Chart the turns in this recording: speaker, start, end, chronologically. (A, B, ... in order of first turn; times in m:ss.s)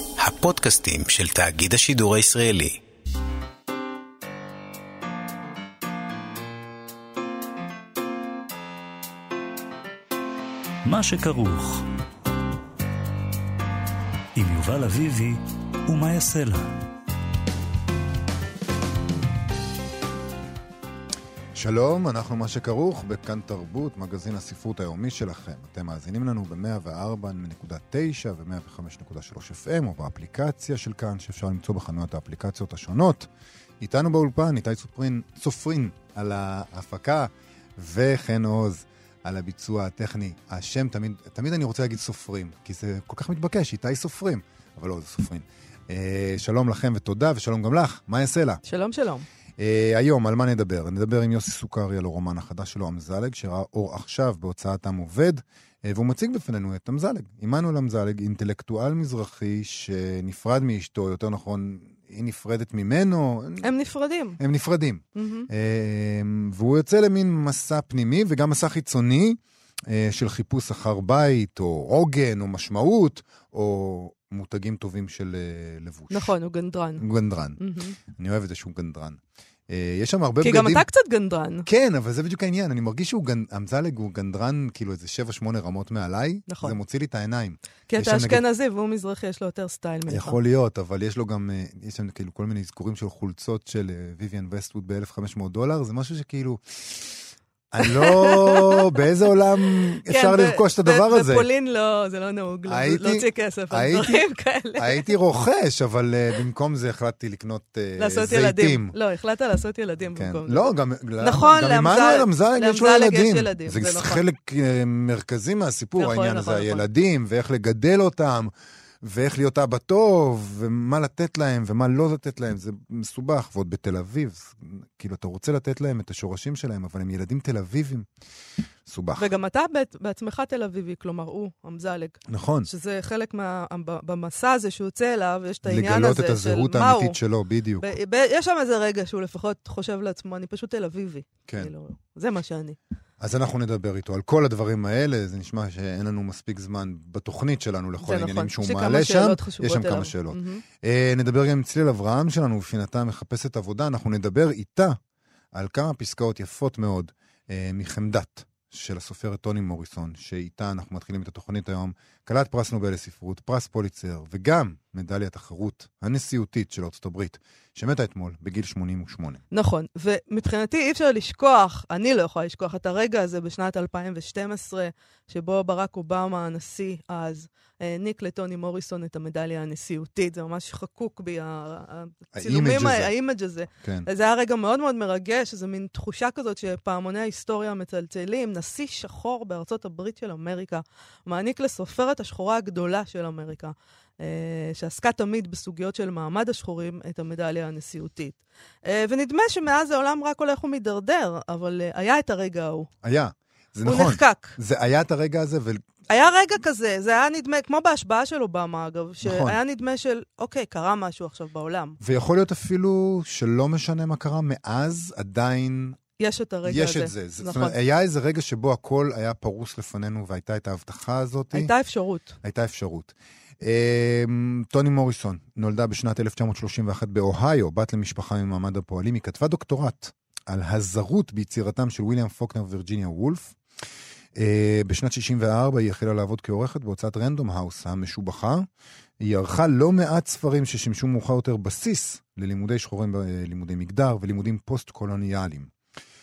0:00.2-0:02.8 A
0:10.8-0:11.8 B
0:14.4-0:16.7 B
0:21.6-0:33.3 C
0:33.8-0:48.6 C
0:48.7-0:49.3 D
0:49.6-1:03.7 C
1:03.6-1:04.4 D
1:04.4-1:16.3 C
1:05.2-1:05.5 D
1:16.1-1:17.1 D
1:17.0-1:20.9 C
1:17.6-1:18.0 D
1:20.4-1:21.7 D
1:21.6-1:28.4 C
1:26.5-1:26.7 D
1:27.9-1:30.4 D
1:30.1-1:41.5 C
1:37.9-1:38.8 D
1:40.1-1:45.0 D
1:42.7-1:44.2 C
1:44.8-1:49.0 C
1:48.0-1:54.2 D
1:50.2-2:08.1 C
1:56.0-1:56.8 D
2:08.9-2:09.3 C
2:09.2-2:17.2 D
2:12.3-2:12.7 C
2:15.6-2:17.9 C
2:17.8-2:22.8 D
2:23.2-2:35.0 C
2:28.0-2:30.6 D
2:35.5-2:49.4 C
2:49.5-3:22.9 D
3:02.3-3:03.1 C
3:03.7-3:04.1 C
3:23.0-3:25.8 C
3:23.8-3:24.6 D
3:26.1-3:32.0 D
3:29.2-3:29.6 C
3:32.0-3:36.0 C
3:36.2-3:37.8 D
3:36.6-3:41.7 C
3:41.5-3:42.4 D
3:42.4-3:53.6 C
3:54.4-3:58.7 C
3:59.2-4:05.7 C